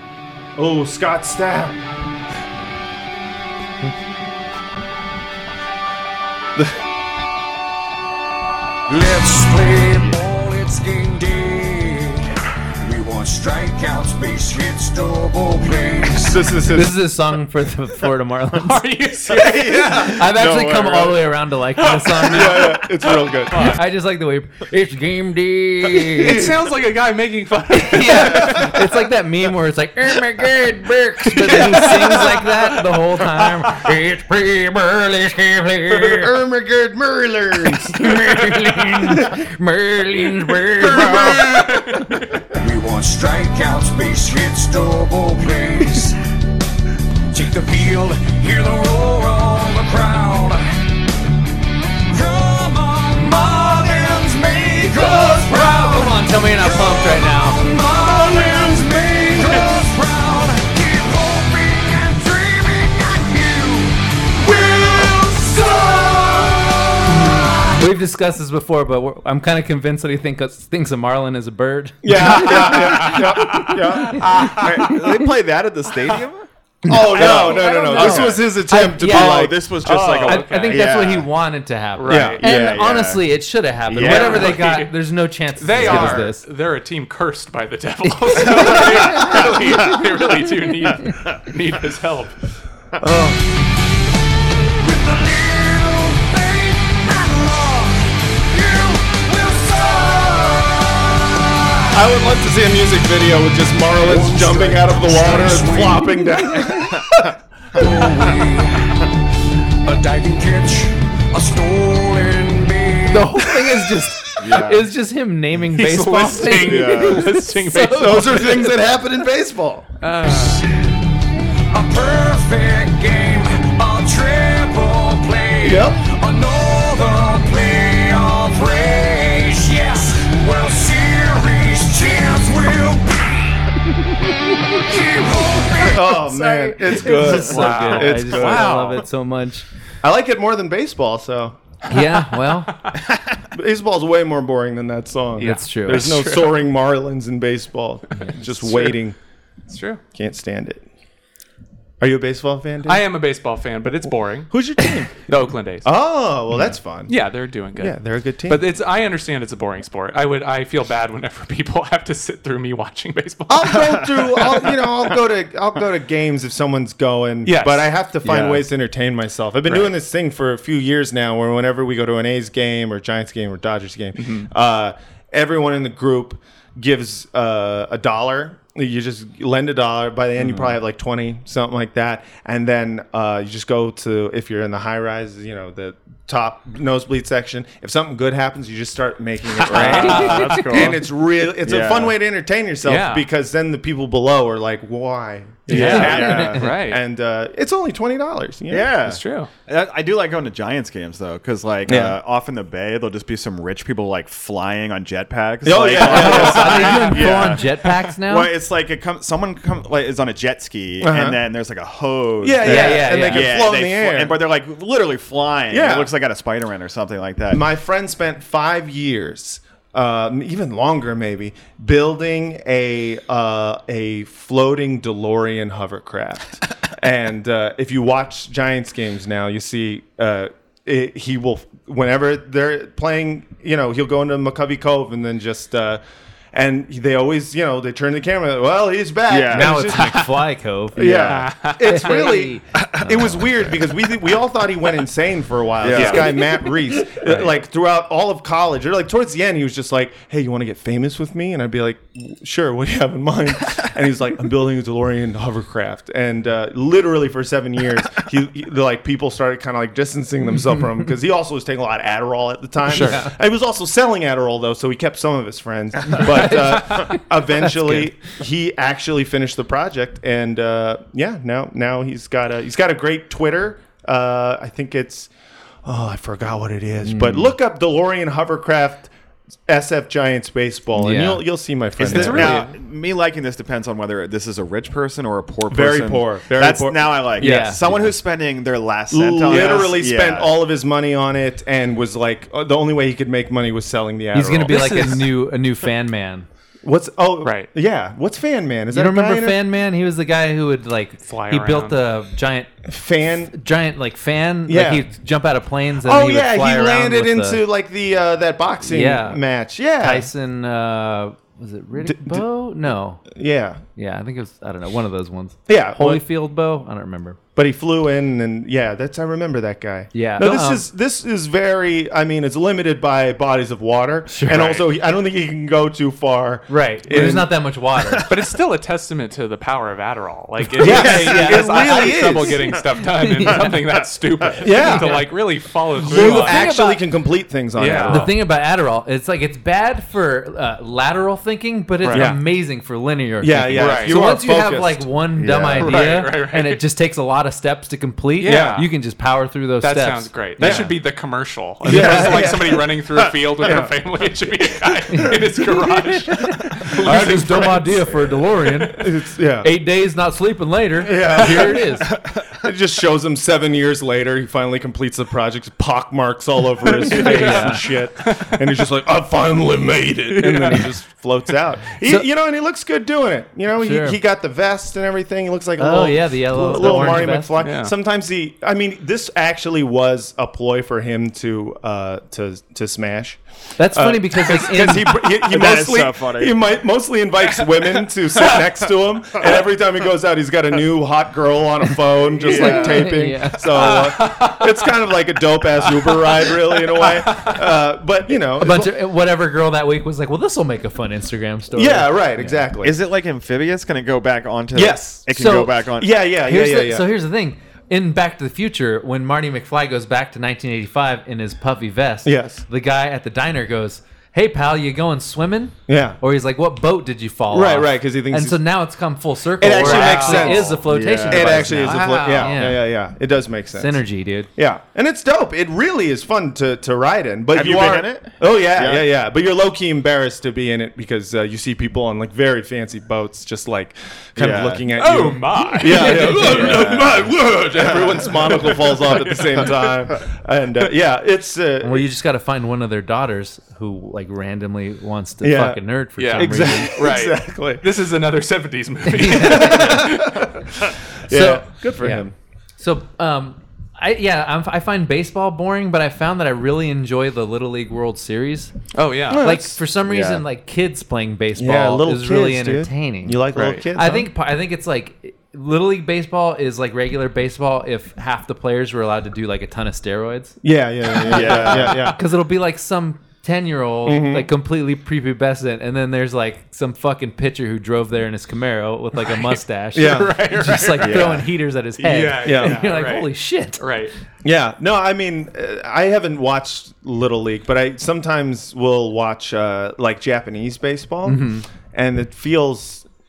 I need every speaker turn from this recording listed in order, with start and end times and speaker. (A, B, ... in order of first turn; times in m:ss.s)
0:00.6-0:01.8 A
0:08.9-0:12.3 B
0:12.8-0:16.5 B
0:16.2-0:17.0 A
0:16.7-0:18.8 C
0:18.6-0:20.1 D
0:19.2-0:21.3 E
0:20.0-0:22.8 C
0:21.8-0:23.8 D
0:22.2-0:23.7 A
0:23.6-0:26.4 C
0:26.0-0:28.8 D
0:26.1-0:26.7 A
0:27.7-0:36.3 C
0:28.1-0:28.7 A
0:31.4-0:32.2 D
0:35.9-0:39.4 A
0:37.7-0:41.5 C
0:40.6-0:41.9 A
0:41.4-0:42.4 D
0:42.6-0:46.2 B
0:47.3-0:50.7 B
0:52.0-1:07.8 B
0:55.0-0:57.7 C
0:58.0-0:59.6 A
1:07.1-1:14.9 C
1:12.0-1:15.0 A
1:12.5-1:14.5 D
1:14.4-1:16.5 E
1:16.8-1:20.5 A
1:16.8-1:26.4 C
1:17.0-1:18.4 E
1:18.0-1:18.2 D
1:18.9-1:21.3 E
1:20.2-1:20.8 D
1:22.0-1:22.4 D
1:22.1-1:22.8 A
1:22.4-1:23.3 E
1:23.9-1:24.6 E
1:24.0-1:24.9 D
1:25.6-1:32.3 D
1:25.8-1:26.3 A
1:28.1-1:29.3 C
1:28.6-1:30.0 E
1:33.0-1:33.4 A
1:34.8-1:42.0 B
1:41.9-1:48.3 A
1:44.0-1:46.5 B
1:46.8-1:47.3 E
1:47.7-1:49.0 B
1:49.8-1:53.6 B
1:53.1-1:58.7 C
1:54.4-1:54.9 E
1:55.7-1:58.6 D
1:56.5-1:57.4 E
1:57.8-1:59.9 A
2:00.0-2:00.6 D
2:01.7-2:13.6 B
2:05.6-2:06.0 A
2:14.8-2:16.3 B
2:15.8-2:18.9 A
2:16.8-2:19.6 C
2:17.4-2:19.0 D
2:20.0-2:21.6 A
2:21.9-2:22.7 C
2:23.5-2:29.2 A
2:25.4-2:26.1 C
2:25.4-2:26.6 D
2:28.5-2:28.9 D
2:29.7-2:30.0 D
2:30.1-2:30.8 A
2:32.0-2:33.0 A
2:32.8-2:35.9 D
2:34.5-2:37.2 A
2:37.1-2:44.1 D
2:37.7-2:38.6 A
2:43.5-3:18.9 A
2:43.7-2:44.8 E
2:47.4-2:47.9 D
2:48.3-2:48.5 E
2:54.2-2:54.5 D
3:00.4-3:00.7 E
3:09.6-3:11.1 E
3:09.9-3:10.4 D
3:10.0-3:10.6 C
3:11.6-3:12.1 E
3:12.8-3:13.3 D
3:15.7-3:16.7 E
3:15.7-3:17.0 D
3:15.7-3:16.7 C
3:18.7-3:37.6 E
3:19.0-3:19.5 D
3:21.8-3:22.2 A
3:25.6-3:27.6 A
3:26.0-3:28.5 C
3:26.2-3:27.0 D
3:31.0-3:31.4 A
3:32.4-3:34.4 A
3:32.6-3:33.6 C
3:35.7-3:36.1 A
3:37.5-3:56.0 A
3:56.5-4:00.3 A
3:59.3-4:00.2 E
3:59.5-4:01.3 C
4:00.9-4:35.3 A
4:01.0-4:01.5 E
4:01.3-4:02.0 D
4:01.8-4:03.4 C
4:05.8-4:06.4 E
4:05.9-4:06.3 D
4:07.2-4:07.5 C
4:22.9-4:23.2 D
4:23.0-4:23.3 C
4:26.1-4:28.1 C
4:35.8-4:39.1 A
4:37.0-4:37.5 C
4:39.7-4:42.6 A
4:41.0-4:41.4 C
4:42.0-4:50.5 E
4:42.0-4:42.7 D
4:45.7-4:48.1 A
4:47.4-4:48.1 C
4:49.1-4:55.2 A
4:49.5-4:49.8 D
4:54.3-4:56.5 C
4:54.7-4:55.3 D
4:56.8-4:59.6 A
4:57.4-4:57.7 D
4:58.9-5:02.7 C
5:01.2-5:02.0 D
5:02.8-5:03.5 A
5:03.5-5:07.6 C
5:04.7-5:05.0 A
5:06.0-5:10.3 A
5:08.8-5:09.4 C
5:10.0-5:13.2 C
5:12.0-5:12.5 A
5:13.3-5:13.8 A
5:14.0-5:17.4 C
5:15.7-5:16.2 A
5:17.6-5:27.5 A
5:20.1-5:20.8 C
5:24.3-5:24.8 C
5:26.7-5:28.3 C
5:28.0-5:28.3 E
5:28.3-5:36.6 D
5:30.8-5:32.8 A
5:30.8-5:32.2 C
5:30.9-5:31.5 E
5:33.2-5:33.7 C
5:34.0-5:34.5 E
5:34.6-5:35.4 A
5:34.8-5:35.0 C
5:36.0-5:38.3 A
5:36.1-5:37.0 C
5:37.8-5:38.3 D
5:38.1-5:50.9 C
5:42.0-5:42.3 D
5:42.1-5:42.4 A
5:43.4-5:46.0 A
5:43.7-5:44.2 D
5:45.8-5:46.8 D
5:48.4-5:48.9 D
5:48.4-5:48.8 A
5:49.8-5:58.1 D
5:50.6-5:51.0 A
5:51.8-5:53.0 A
5:51.8-5:52.5 C
5:53.6-5:53.9 A
5:55.1-5:59.0 C
5:57.0-5:58.0 A
5:58.9-5:59.7 A
5:59.6-6:02.1 C
6:01.0-6:02.1 A
6:02.6-6:38.9 A
6:07.1-6:07.8 C
6:07.1-6:08.6 D
6:10.3-6:10.9 D
6:13.8-6:14.2 C
6:15.8-6:17.6 C
6:17.6-6:17.9 D
6:23.8-6:25.2 C
6:25.4-6:26.6 E
6:32.4-6:33.1 E
6:32.4-6:33.7 C
6:33.8-6:34.9 D
6:35.8-6:37.7 D
6:38.6-6:42.6 C
6:41.7-6:43.0 A
6:42.8-6:46.2 E
6:44.7-6:45.3 A
6:45.3-7:02.9 C
6:46.0-6:47.1 A
6:52.2-6:52.6 A
6:55.9-6:56.2 A
6:57.5-6:58.6 A
6:59.6-7:04.0 A
6:59.8-7:02.6 E
6:59.8-7:00.5 D
7:03.8-7:04.5 C
7:04.6-7:22.1 A
7:07.5-7:09.1 E
7:14.4-7:14.9 E
7:15.0-7:17.0 D
7:15.9-7:16.8 C
7:16.3-7:17.4 E
7:18.4-7:19.9 D
7:21.8-7:27.0 C
7:25.4-7:27.8 A
7:26.2-7:30.8 D
7:29.1-7:30.2 C
7:29.4-7:30.5 A
7:31.3-7:32.3 A
7:31.3-7:32.3 C
7:32.8-7:38.7 C
7:38.9-7:39.4 D
7:39.3-7:39.8 A
7:39.3-7:50.6 C
7:40.0-7:40.4 E
7:41.6-7:44.3 A
7:43.5-7:43.8 D
7:50.6-7:52.2 A
7:51.2-7:52.1 E
7:51.3-8:03.8 C
7:54.0-7:54.5 A
7:59.2-8:01.3 D
7:59.9-8:00.6 A
8:01.0-8:01.5 E
8:02.0-8:04.1 D
8:02.4-8:02.9 A
8:04.4-8:13.0 A
8:11.2-8:11.7 C